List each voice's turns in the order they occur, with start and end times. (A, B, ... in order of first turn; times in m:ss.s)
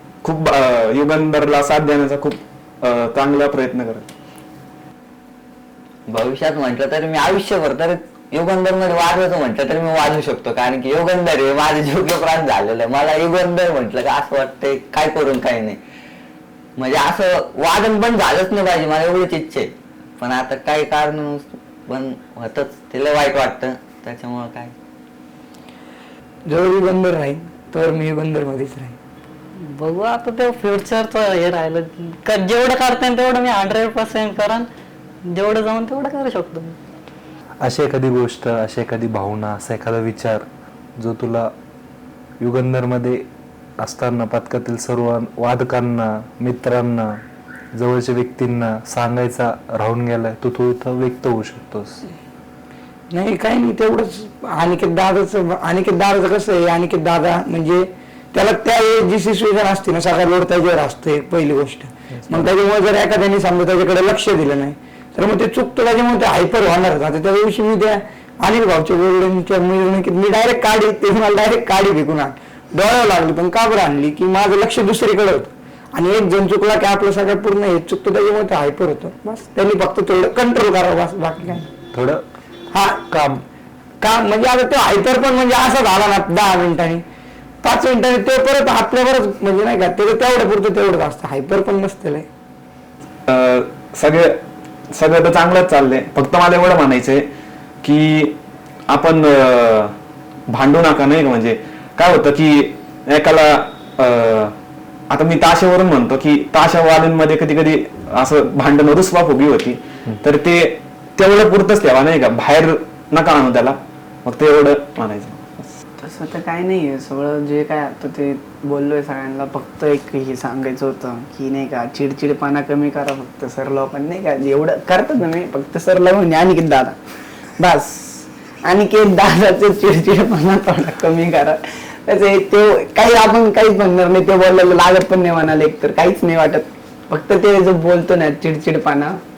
0:00.2-0:04.1 A
0:06.1-0:15.8 B
0:16.8-0:24.7 B
0:26.5-0:28.9 C
0:29.8-0:34.7 D
0:35.3-0:36.8 D
0:37.6-0:41.5 E
0:42.4-0:43.2 E
0:43.8-0:47.2 E
0:47.8-0:52.0 E
0:53.1-1:21.7 C
1:21.9-1:22.2 E
1:23.1-1:23.4 E
1:24.0-1:27.0 C
1:27.6-1:32.2 C
1:33.3-1:34.4 A
1:34.9-1:37.3 A
1:37.8-1:38.4 A
1:38.9-1:40.0 A
1:40.5-1:44.6 A
1:45.1-1:55.6 A
1:56.0-2:07.0 F
2:07.6-2:19.2 F